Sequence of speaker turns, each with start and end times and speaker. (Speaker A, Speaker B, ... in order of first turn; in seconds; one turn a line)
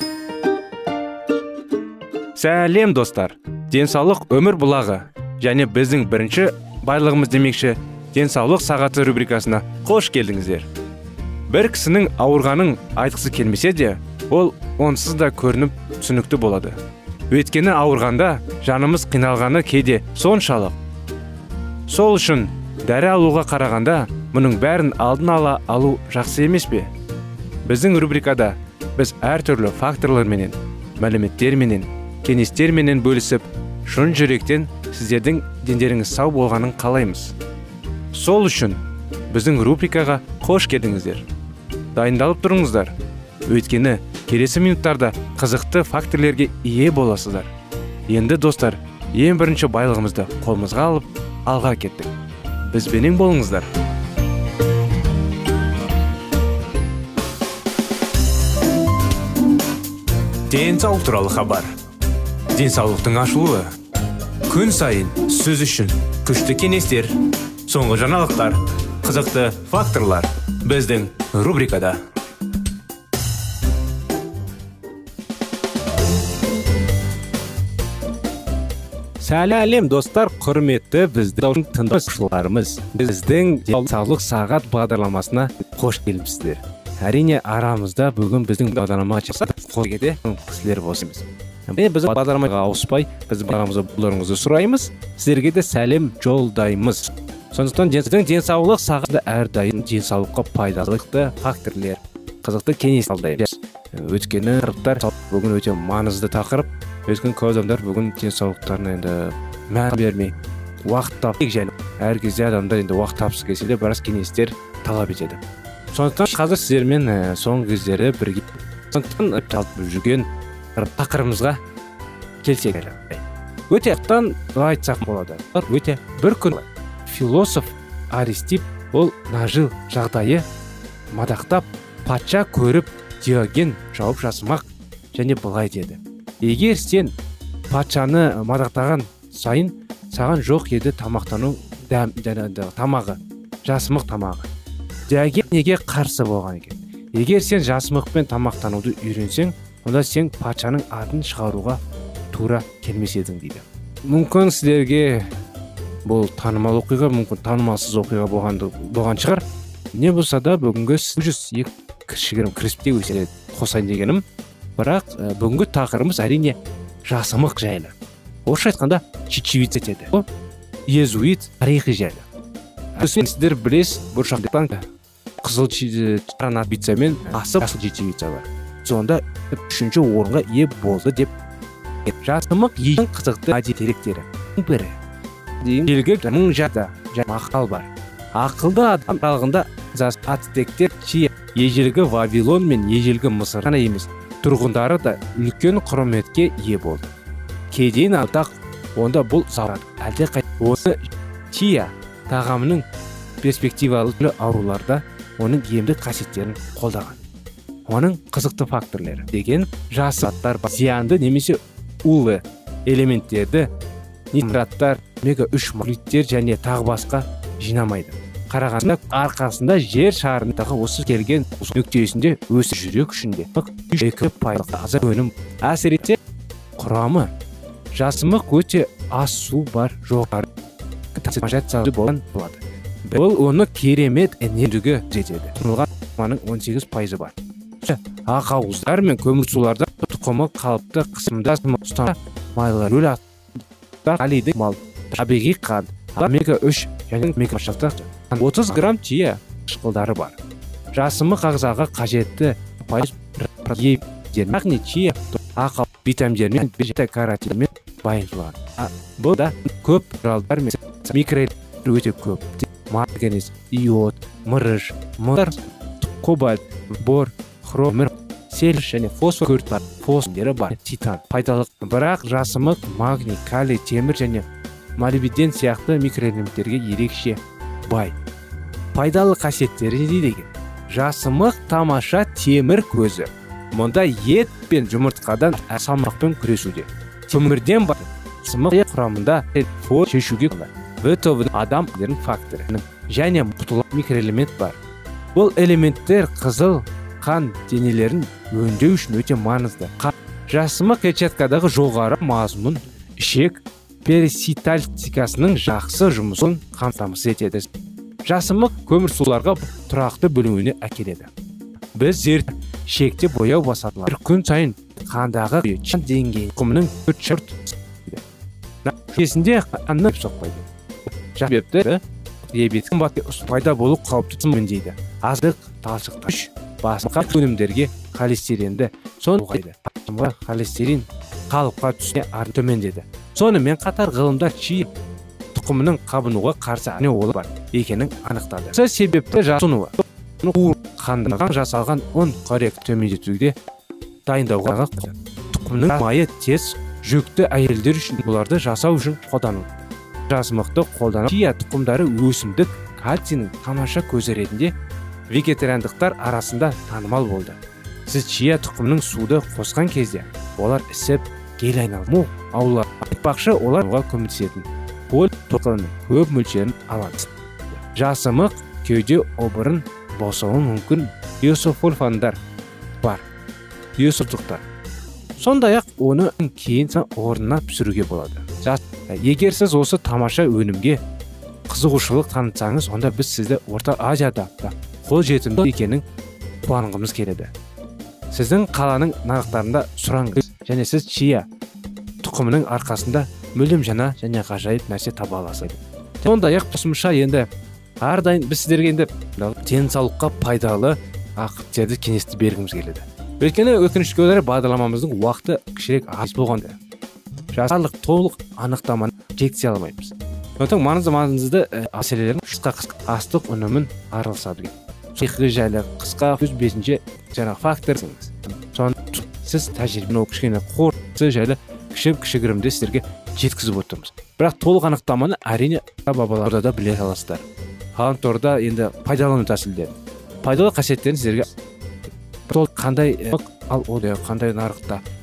Speaker A: 2.4-10.7
Speaker A: 11.5-16.8
Speaker A: 17.3-20.8
Speaker A: 21.9-26.9
Speaker A: 27.6-37.3
Speaker A: 38.1-41.3
Speaker A: 41.9-42.9
Speaker A: 43.5-47.5
Speaker A: 48.1-52.1
Speaker A: 52.6-53.7
Speaker A: 60.5-61.8
Speaker A: 62.5-63.7
Speaker A: 64.5-72.0
Speaker A: 79.2-115.4
Speaker A: 115.9-121.6
Speaker A: 122.4-130.4
Speaker A: 131.1-137.1
Speaker A: 137.7-144.5
Speaker A: 145.1-151.8
Speaker A: 152.3-155.3
Speaker A: 156.0-164.2
Speaker A: 164.8-167.9
Speaker A: 168.4-170.2
Speaker A: 170.9-172.3
Speaker A: 172.9-174.9
Speaker A: 175.4-181.3
Speaker A: 182.2-185.0
Speaker A: 185.6-197.1
Speaker A: 197.7-202.8
Speaker A: 203.4-207.2
Speaker A: 207.9-213.7
Speaker A: 214.3-226.2
Speaker A: 226.8-227.3
Speaker A: 227.9-230.5
Speaker A: 231.1-243.2
Speaker A: 244.0-250.4
Speaker A: 250.9-278.1
Speaker A: 278.9-294.8
Speaker A: 295.3-307.7
Speaker A: 308.2-311.3
Speaker A: 311.9-318.2
Speaker A: 318.8-334.9
Speaker A: 335.5-343.6
Speaker A: 344.2-354.7
Speaker A: 355.3-372.4
Speaker A: 374.0-374.6
Speaker A: 375.4-381.0
Speaker A: 381.7-386.0
Speaker A: 386.6-387.5
Speaker A: 388.3-391.4
Speaker A: 392.2-397.5
Speaker A: 398.0-406.8
Speaker A: 407.5-431.5
Speaker A: 432.5-435.0